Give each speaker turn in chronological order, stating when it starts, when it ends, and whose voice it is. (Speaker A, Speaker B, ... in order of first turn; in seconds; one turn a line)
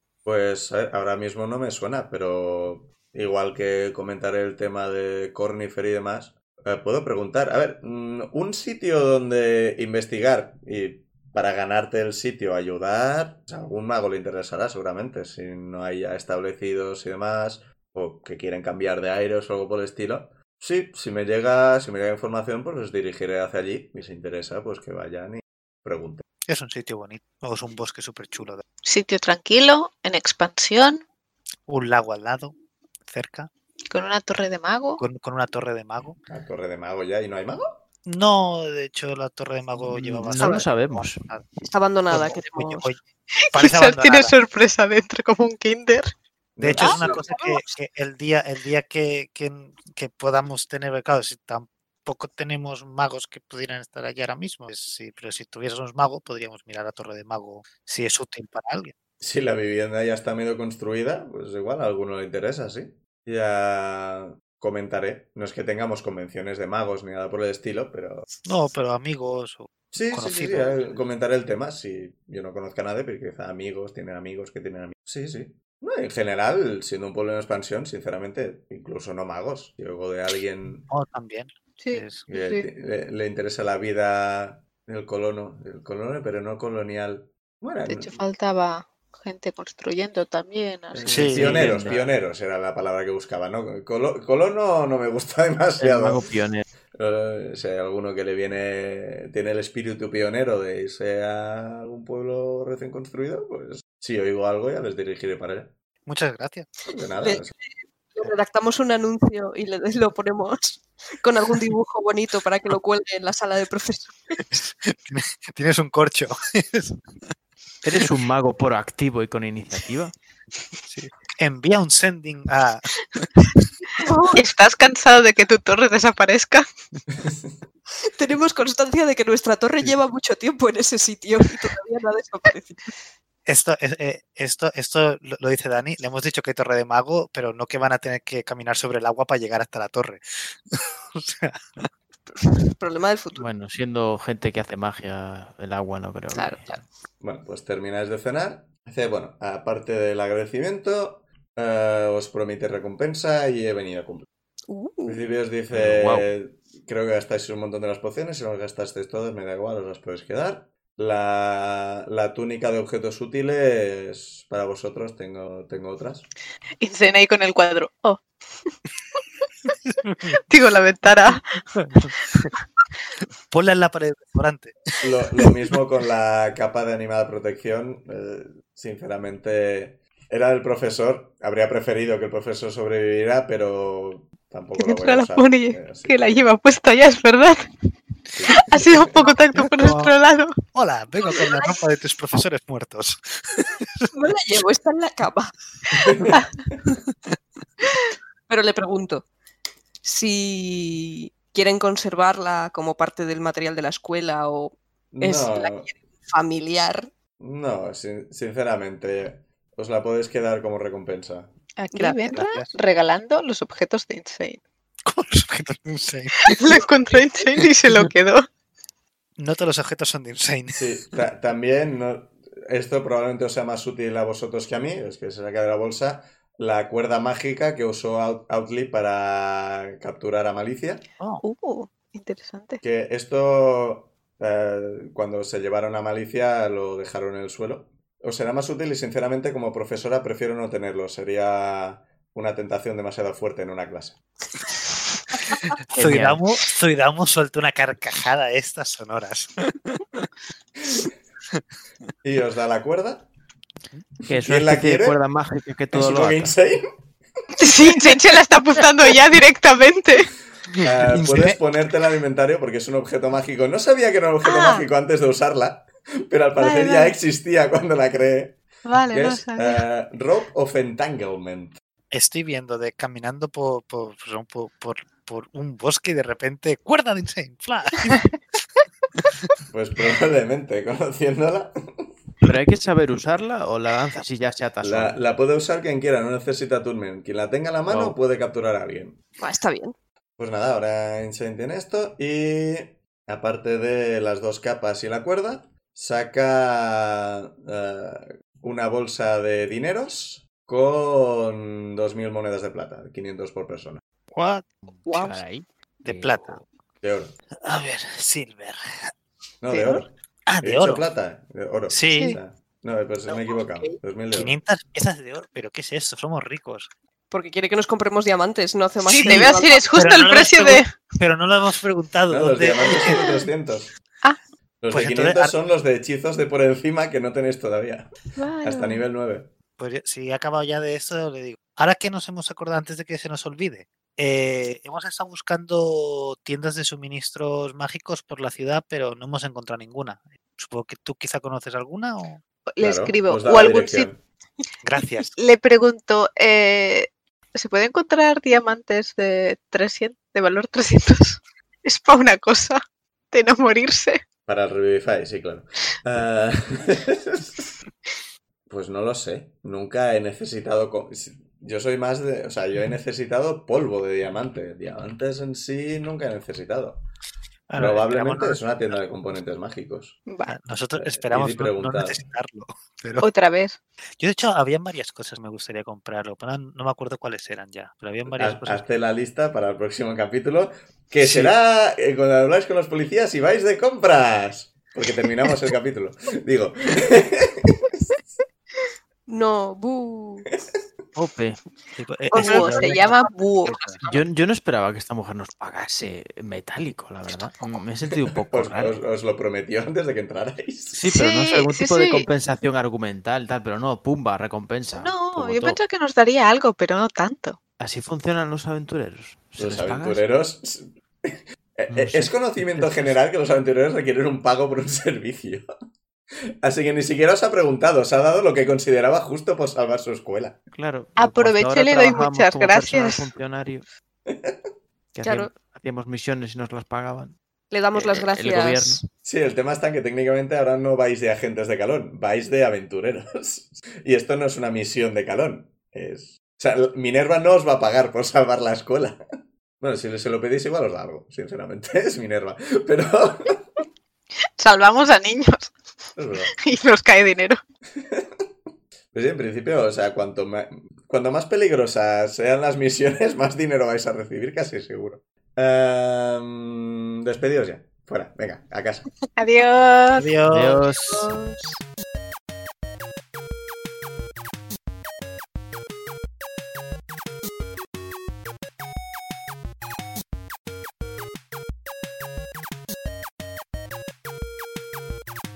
Speaker A: 0.2-26.2
Speaker B: 26.4-28.6
Speaker C: 28.8-31.1
Speaker B: 31.7-32.5
Speaker B: 33.1-33.5
Speaker C: 33.9-35.0
Speaker B: 35.0-36.2
Speaker A: 36.3-37.8
Speaker B: 38.0-41.5
Speaker D: 39.8-41.2
Speaker E: 40.4-40.6
Speaker E: 41.6-42.9
Speaker B: 42.1-44.4
Speaker C: 43.5-46.1
Speaker A: 46.5-47.2
Speaker B: 46.6-58.9
Speaker C: 46.8-47.2
Speaker A: 59.2-68.3
Speaker B: 68.4-71.0
Speaker A: 69.9-80.9
Speaker B: 80.9-82.3
Speaker C: 81.8-82.7
Speaker A: 82.3-88.2
Speaker C: 87.8-92.0
Speaker A: 90.9-96.2
Speaker B: 91.1-91.7
Speaker D: 91.1-92.0
Speaker D: 95.8-96.6
Speaker A: 96.9-105.7
Speaker B: 106.0-106.7
Speaker A: 106.9-107.5
Speaker E: 107.2-107.5
Speaker E: 108.1-114.2
Speaker B: 114.5-117.0
Speaker D: 117.8-120.1
Speaker B: 120.8-123.5
Speaker E: 124.0-124.4
Speaker C: 124.1-126.7
Speaker A: 127.2-127.5
Speaker E: 128.0-132.9
Speaker B: 133.5-141.9
Speaker E: 142.5-143.4
Speaker D: 143.4-146.7
Speaker E: 146.3-146.8
Speaker A: 147.2-154.3
Speaker E: 154.7-155.2
Speaker A: 155.1-166.3
Speaker D: 155.7-156.3
Speaker C: 166.8-168.3
Speaker B: 170.1-170.3
Speaker C: 170.3-171.6
Speaker B: 171.8-172.5
Speaker B: 173.5-174.8
Speaker A: 175.0-186.5
Speaker C: 184.8-187.7
Speaker A: 188.4-189.3
Speaker C: 188.5-190.6
Speaker B: 189.2-190.1
Speaker B: 190.7-194.1
Speaker E: 194.1-195.5
Speaker A: 196.0-196.4
Speaker E: 198.5-199.3
Speaker E: 200.0-207.1
Speaker A: 205.1-205.9
Speaker A: 207.4-211.5
Speaker C: 211.8-214.6
Speaker E: 211.9-212.5
Speaker B: 212.3-212.7
Speaker B: 215.1-216.8
Speaker C: 216.4-218.4
Speaker B: 219.4-221.0
Speaker A: 220.8-231.1
Speaker C: 231.4-232.8
Speaker A: 232.8-244.2
Speaker B: 245.5-250.3
Speaker D: 245.9-246.4
Speaker A: 252.2-253.3
Speaker A: 254.3-255.2
Speaker D: 254.3-256.5
Speaker A: 255.9-256.9
Speaker C: 257.6-260.3
Speaker B: 260.7-261.6
Speaker A: 260.8-271.8
Speaker C: 264.4-264.8
Speaker C: 266.6-267.1
Speaker C: 268.8-269.8
Speaker B: 272.1-278.4
Speaker A: 279.7-282.1
Speaker D: 282.4-285.2
Speaker A: 284.8-289.2
Speaker D: 287.9-288.1
Speaker E: 289.4-289.9
Speaker A: 290.4-304.0
Speaker B: 304.3-305.4
Speaker D: 304.9-306.6
Speaker B: 306.0-306.6
Speaker A: 307.0-307.4
Speaker B: 307.6-309.1
Speaker A: 309.6-314.6
Speaker C: 309.7-310.0
Speaker B: 310.5-311.1
Speaker B: 311.9-312.4
Speaker B: 314.3-316.9
Speaker E: 317.3-319.8
Speaker C: 319.1-320.9
Speaker B: 319.9-323.3
Speaker A: 322.3-323.9
Speaker A: 324.8-329.5
Speaker B: 324.9-325.5
Speaker C: 328.4-329.1
Speaker B: 329.8-342.4
Speaker C: 342.7-344.1
Speaker A: 342.8-344.2
Speaker B: 344.8-345.4
Speaker C: 345.4-354.2
Speaker A: 354.4-357.7
Speaker A: 358.7-367.1
Speaker B: 367.7-368.7
Speaker A: 367.8-370.2
Speaker C: 370.3-370.6
Speaker B: 370.4-373.3
Speaker A: 370.9-372.2
Speaker C: 373.2-373.8
Speaker B: 374.2-378.9
Speaker A: 378.3-388.0
Speaker B: 381.2-381.5
Speaker E: 389.3-390.5
Speaker D: 391.1-391.6
Speaker B: 391.9-394.0
Speaker C: 392.3-394.2
Speaker E: 392.3-393.1
Speaker D: 394.0-399.0
Speaker A: 398.5-401.0
Speaker D: 400.9-405.8
Speaker C: 401.1-402.3
Speaker C: 404.9-407.6
Speaker D: 407.8-410.2
Speaker A: 409.6-415.6
Speaker D: 411.9-413.1
Speaker A: 416.6-420.6
Speaker D: 420.8-423.8
Speaker C: 421.2-423.3
Speaker A: 424.3-424.6
Speaker D: 425.1-427.4
Speaker E: 425.2-425.5
Speaker E: 427.7-429.0
Speaker D: 427.9-429.0
Speaker A: 429.2-439.2
Speaker A: 439.8-443.7
Speaker C: 444.6-445.8
Speaker A: 446.1-446.5
Speaker C: 446.4-447.6
Speaker A: 447.9-448.4
Speaker A: 449.1-459.1
Speaker C: 459.4-460.3
Speaker B: 460.2-460.9
Speaker D: 460.5-461.3
Speaker C: 461.1-461.6